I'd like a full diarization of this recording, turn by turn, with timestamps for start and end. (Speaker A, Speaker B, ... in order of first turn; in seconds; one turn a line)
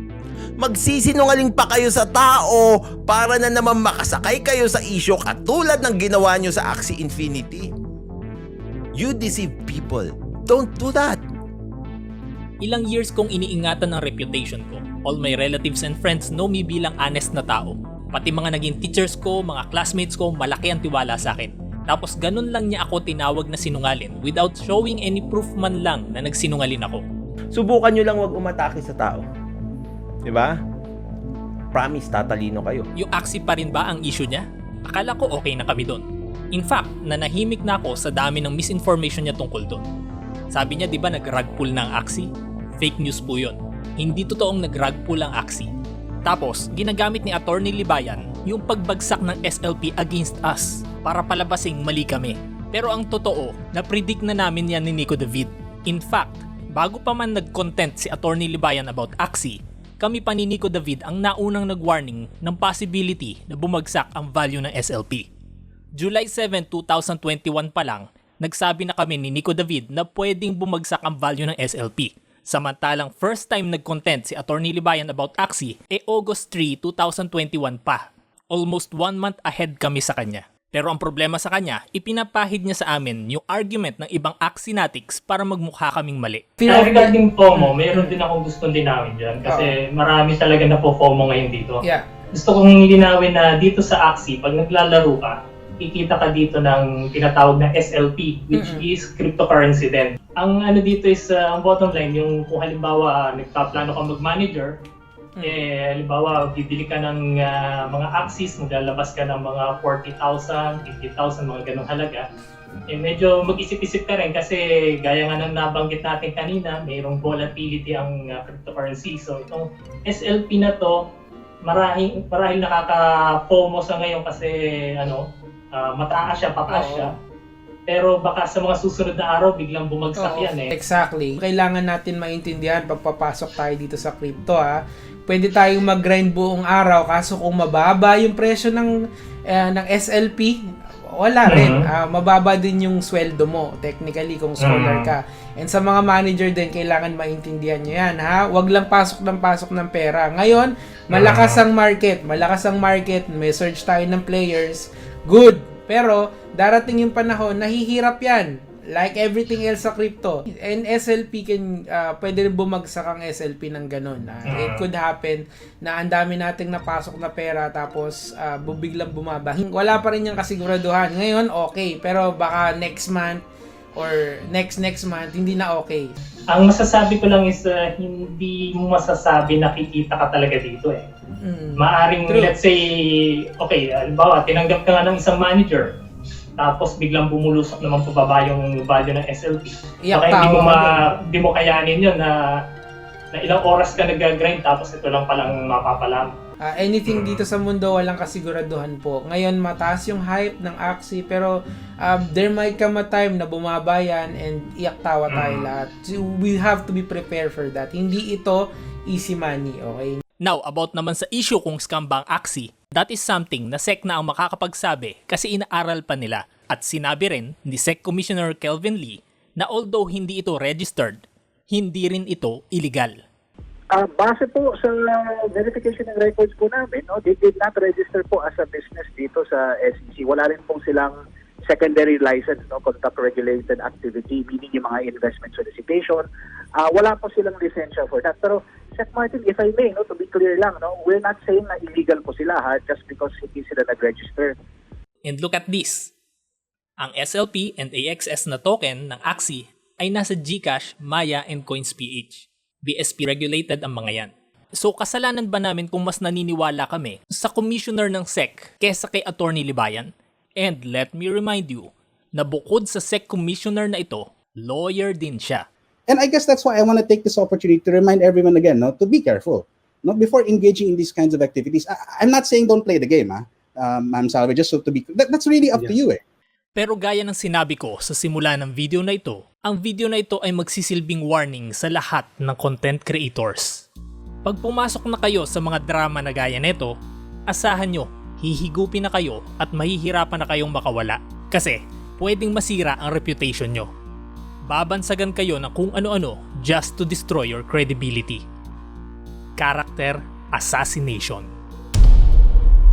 Speaker A: 0.6-7.7
Speaker A: 8.9-11.2
Speaker B: 12.6-27.0
Speaker A: 27.5-29.2
Speaker A: 30.2-30.5
Speaker A: 31.7-32.9
Speaker B: 33.0-39.8
Speaker B: 40.5-45.7
Speaker B: 46.2-65.3
Speaker B: 66.0-86.7
Speaker C: 86.6-88.2
Speaker D: 86.7-91.8
Speaker C: 89.5-89.8
Speaker D: 92.3-104.7
Speaker C: 98.5-98.9
Speaker C: 105.4-105.6
Speaker D: 105.5-112.2
Speaker D: 112.9-120.9
Speaker D: 121.6-125.2
Speaker D: 125.7-127.1
Speaker C: 126.7-127.1
Speaker D: 127.9-130.7
Speaker C: 130.1-138.9
Speaker C: 139.5-140.6
Speaker C: 141.1-173.4
Speaker D: 141.4-141.9
Speaker D: 144.6-145.1
Speaker D: 151.1-151.6
Speaker D: 164.4-164.8
Speaker C: 173.9-176.1
Speaker D: 176.5-181.1
Speaker C: 181.4-182.6
Speaker D: 181.8-182.9
Speaker D: 183.6-185.9
Speaker D: 186.6-192.3
Speaker C: 190.1-191.0
Speaker D: 193.3-196.3
Speaker C: 196.6-201.5
Speaker D: 197.1-197.4
Speaker C: 202.0-210.2
Speaker D: 205.3-205.7
Speaker B: 210.4-223.2
Speaker E: 223.9-244.6
Speaker B: 245.2-246.1
Speaker B: 247.0-265.6
Speaker F: 266.1-276.2
Speaker B: 276.8-283.8
Speaker B: 284.4-286.9
Speaker B: 287.5-293.9
Speaker B: 294.7-298.4
Speaker B: 299.6-301.5